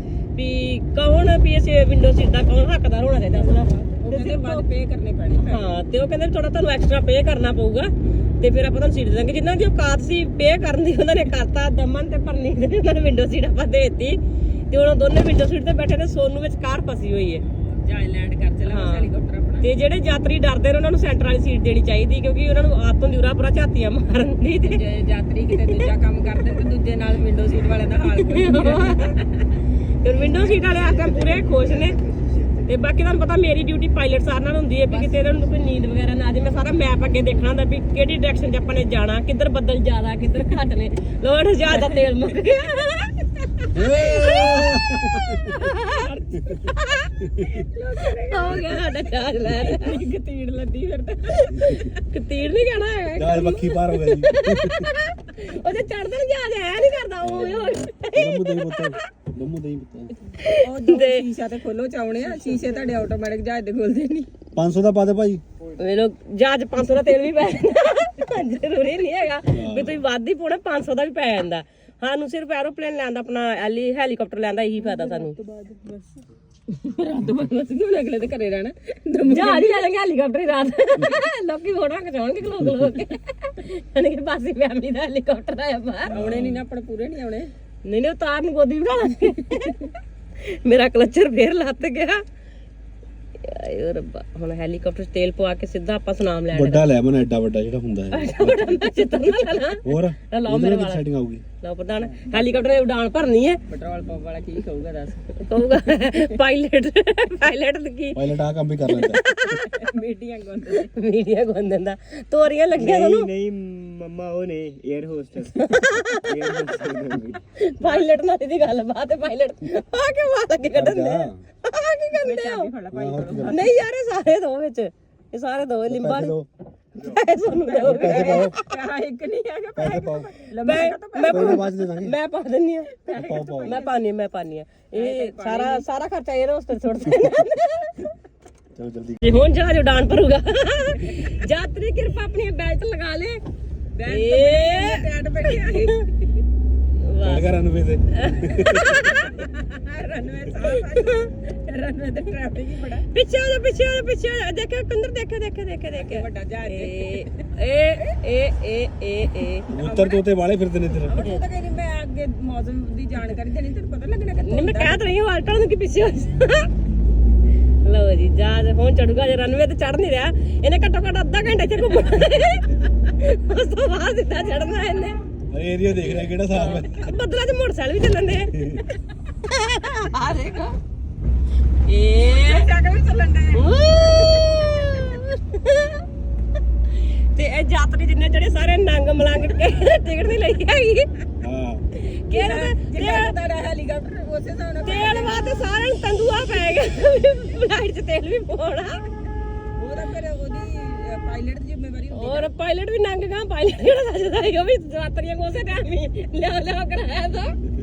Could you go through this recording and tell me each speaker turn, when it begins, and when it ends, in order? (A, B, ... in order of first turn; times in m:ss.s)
0:00.4-0:04.7 A
0:03.3-0:05.6 B
0:05.4-0:17.4 A
0:17.8-0:19.7 B
0:18.7-0:19.1 A
0:19.6-0:24.8 A
0:24.6-0:29.2 B
0:25.5-0:25.9 A
0:28.2-0:29.2 A
0:30.0-0:32.0 A
0:30.1-0:32.7 C
0:32.7-0:44.8 A
0:34.9-0:35.5 B
0:41.7-0:42.0 B
0:43.7-0:45.5 D
0:45.4-0:47.1 A
0:47.4-0:51.7 B
0:48.3-0:50.0 A
0:51.3-0:59.0 A
0:51.6-0:51.8 D
0:53.2-0:54.9 D
0:57.2-1:00.2 D
1:00.4-1:01.2 A
1:00.6-1:04.3 B
1:04.6-1:05.4 D
1:05.8-1:15.4 A
1:09.5-1:10.0 D
1:14.8-1:16.1 B
1:16.8-1:17.3 A
1:16.9-1:19.8 B
1:19.3-1:26.2 A
1:26.1-1:27.5 B
1:26.1-1:26.6 D
1:27.8-1:32.2 A
1:33.4-1:36.9 A
1:36.5-1:38.8 D
1:38.1-1:41.0 A
1:39.8-1:41.4 D
1:41.6-1:43.6 A
1:43.7-1:45.4 B
1:45.4-1:48.4 A
1:48.2-1:49.2 D
1:48.9-1:49.9 A
1:49.7-1:50.9 B
1:50.8-1:53.3 A
1:52.8-1:57.4 C
1:55.6-1:56.4 A
1:57.6-2:02.7 A
2:00.7-2:01.4 D
2:02.2-2:03.8 B
2:02.9-2:03.6 D
2:03.5-2:06.4 A
2:05.9-2:06.5 D
2:07.0-2:08.7 A
2:07.6-2:11.7 B
2:07.8-2:08.6 D
2:09.8-2:10.3 D
2:10.6-2:13.1 A
2:11.3-2:12.2 D
2:13.0-2:14.0 B
2:13.1-2:13.8 D
2:13.6-2:18.1 A
2:14.9-2:15.8 B
2:18.8-2:19.3 D
2:19.2-2:23.4 A
2:21.1-2:21.4 B
2:24.0-2:26.1 B
2:24.1-2:26.1 A
2:26.9-2:27.6 A
2:27.2-2:29.0 D
2:28.1-2:29.4 A
2:29.1-2:33.1 B
2:30.7-2:31.3 A
2:33.1-2:39.7 A
2:36.0-2:37.5 B
2:39.7-2:41.2 D
2:39.8-2:40.3 B
2:40.9-2:45.0 B
2:44.4-2:46.7 A
2:47.8-2:55.2 A
2:55.5-2:57.1 D
2:56.5-2:58.6 A
2:58.5-2:58.9 D
2:59.4-3:00.7 A
3:00.2-3:00.7 B
3:01.9-3:02.7 A
3:02.2-3:03.7 B
3:03.5-3:06.0 A
3:07.0-3:11.1 A
3:11.4-3:11.8 D
3:11.9-3:13.4 A
3:12.3-3:15.5 B
3:14.8-3:19.0 A
3:19.8-3:22.5 B
3:22.1-3:27.6 A